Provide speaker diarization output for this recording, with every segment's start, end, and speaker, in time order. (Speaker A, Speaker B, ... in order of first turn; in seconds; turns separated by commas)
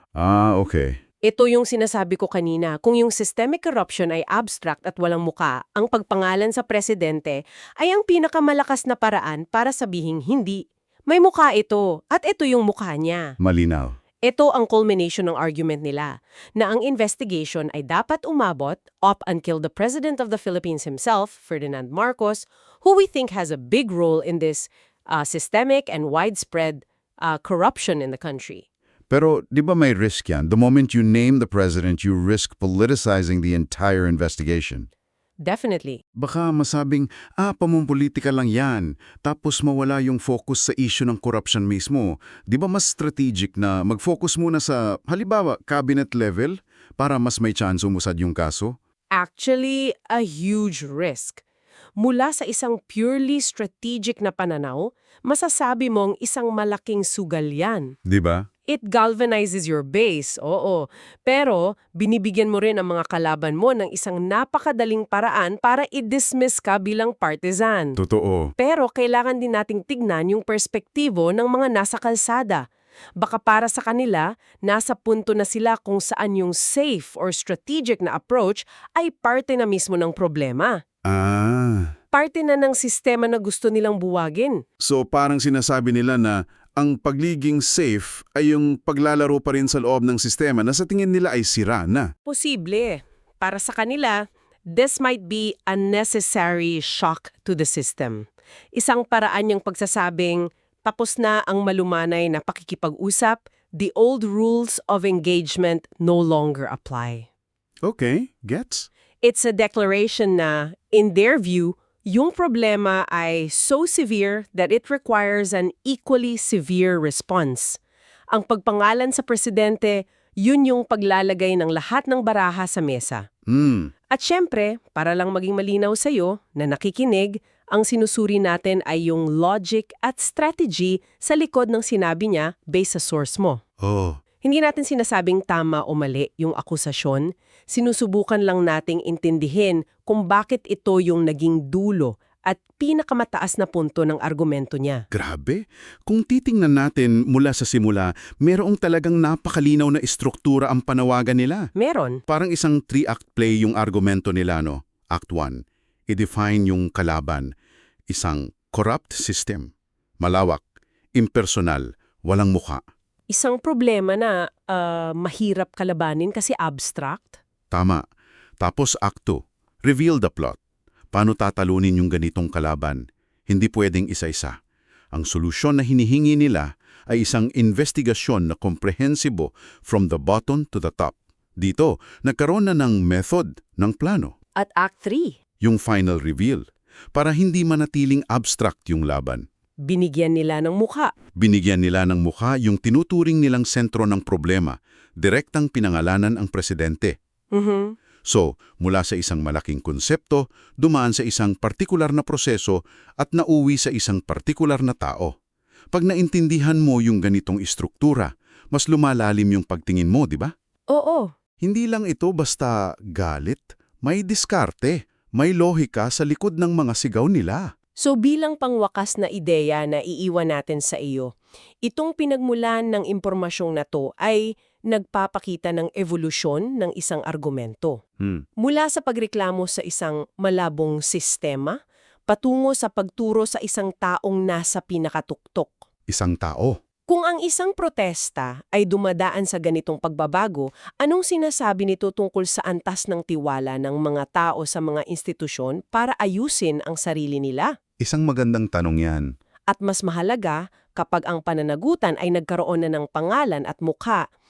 Speaker A: 0.2-0.9, Speaker B: 1.3-13.4, Speaker A: 13.4-13.9, Speaker B: 14.2-28.6, Speaker A: 29.1-34.9, Speaker B: 35.5-36.0, Speaker A: 36.2-48.8, Speaker B: 49.1-51.4, Speaker B: 52.0-58.0, Speaker A: 58.1-58.5, Speaker B: 58.7-68.0, Speaker A: 68.0-68.5, Speaker B: 68.6-72.6, Speaker B: 73.2-80.8, Speaker A: 81.1-82.0, Speaker B: 82.1-84.6, Speaker A: 84.8-92.1, Speaker B: 92.3-107.3, Speaker A: 107.8-108.9, Speaker B: 109.2-117.8, Speaker B: 118.3-123.2, Speaker A: 123.5-123.9, Speaker B: 124.1-133.6, Speaker A: 133.8-134.2, Speaker B: 134.4-145.0, Speaker A: 145.1-151.7, Speaker B: 151.8-152.2, Speaker A: 152.3-157.5, Speaker A: 158.1-162.8, Speaker B: 163.3-167.4, Speaker A: 167.7-168.0, Speaker A: 168.6-170.6, Speaker A: 171.1-174.6, Speaker A: 175.1-184.3, Speaker B: 184.6-185.4, Speaker A: 185.6-189.4, Speaker B: 189.8-191.2, Speaker A: 191.4-197.2, Speaker B: 197.5-197.9, Speaker A: 198.3-205.3, Speaker A: 205.9-210.5, Speaker B: 210.9-211.3, Speaker A: 211.6-217.7, Speaker B: 218.0-221.3, Speaker B: 221.8-228.0, Speaker B: 228.6-235.9, Speaker A: 236.1-236.8, Speaker B: 237.1-247.7, Speaker A: 248.0-249.3, Speaker B: 249.7-254.2